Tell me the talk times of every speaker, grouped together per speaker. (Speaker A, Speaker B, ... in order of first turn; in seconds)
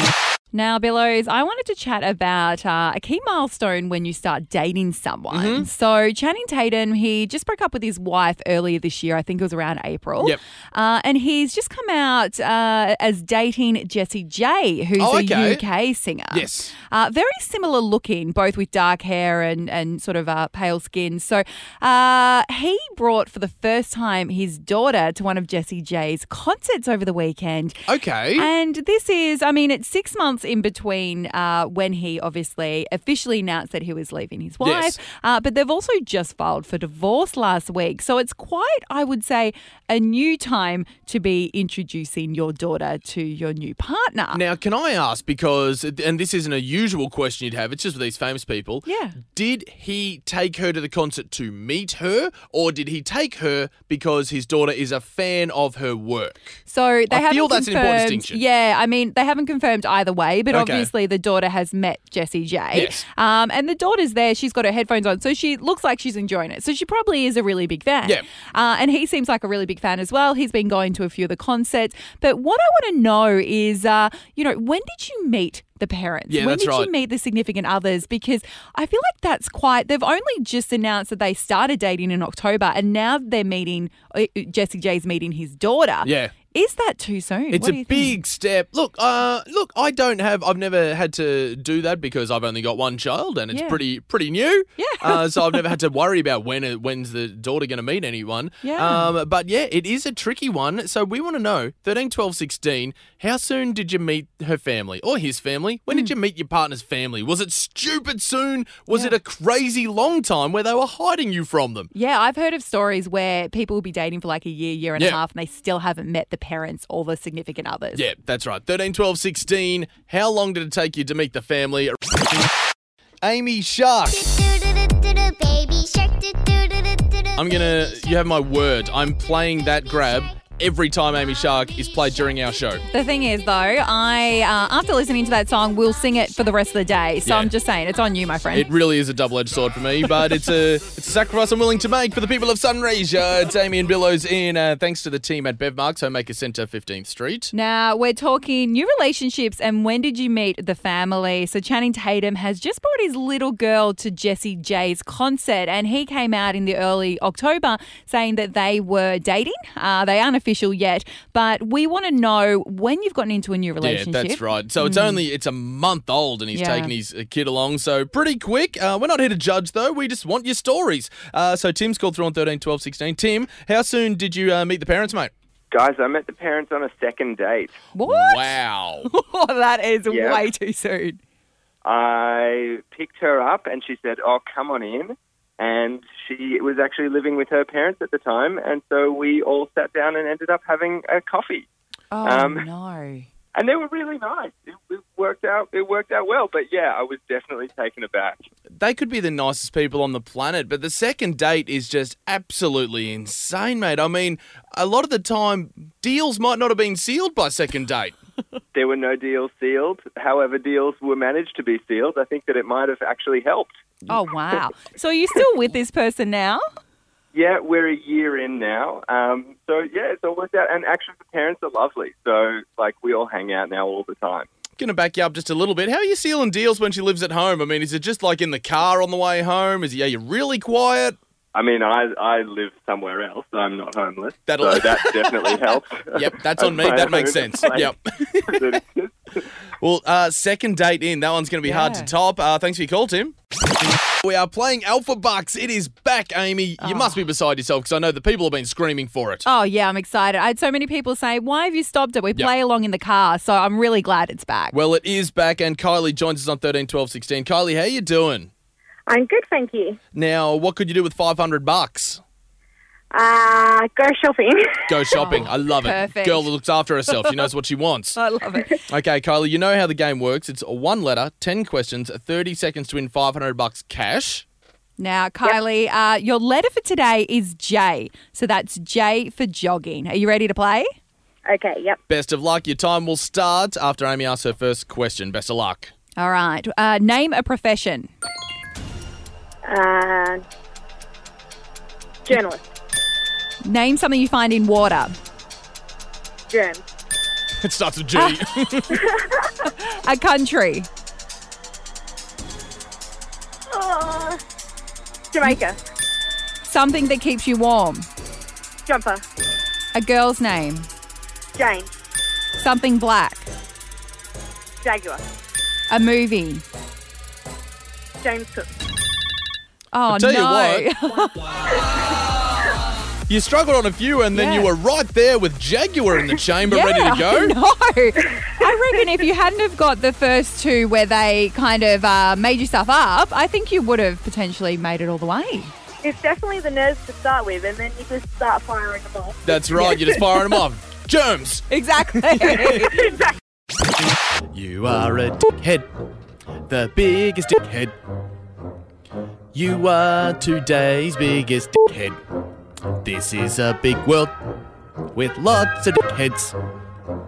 Speaker A: 0.5-44.4, 48.9-49.2, 56.7-88.2, 93.5-93.8, 94.8-95.7, 98.6-99.1, 111.9-118.0, 132.9-138.7, 147.5-165.2, 166.5-166.9, 177.9-181.2, 192.1-193.3, 214.1-216.6, 241.6-242.1, 246.8-247.2, 249.4-254.8, 265.1-266.5, 268.1-268.8, 275.0-280.9, 286.2-288.1, 293.6-295.1, 298.1-298.4, 299.6-300.9, 306.6-308.1, 309.9-310.9, 312.6-313.5, 315.9-316.6, 319.9-321.5, 324.3-324.7, 326.6-335.7, 339.7-340.2, 341.7-343.2
Speaker B: 5.3-5.7, 15.0-15.6, 16.3-16.7, 27.9-28.5, 34.6-35.0, 44.3-58.4, 60.5-60.9, 62.7-63.0, 76.3-76.9, 86.0-86.3, 87.5-111.9, 117.9-122.0, 123.2-124.3, 127.4-132.8, 137.2-137.5, 138.5-147.5, 163.8-175.3, 178.0-179.1, 198.8-208.2, 224.8-231.2, 234.5-235.6, 236.1-238.8, 239.8-243.3, 244.2-249.4, 254.7-258.5, 260.1-262.2, 264.9-268.2, 268.9-274.4, 282.1-285.9, 297.6-299.1, 320.1-320.9, 323.3-327.6, 339.4-342.9, 344.5-345.9, 346.7-347.9, 349.5-352.2, 353.0-354.3, 355.1-356.6
Speaker C: 124.3-128.1
Speaker D: 175.7-177.8, 180.1-180.4, 181.8-191.7, 192.2-192.7, 193.5-198.4, 208.7-213.7, 217.3-224.5, 231.5-237.9, 238.5-239.2
Speaker E: 259.1-260.0, 263.1-264.6, 281.4-282.0, 289.6-290.4, 292.3-292.6, 296.5-296.8, 303.7-304.4, 305.3-305.8, 308.9-309.2, 311.5-311.9, 314.8-315.2, 318.2-318.6, 336.0-339.3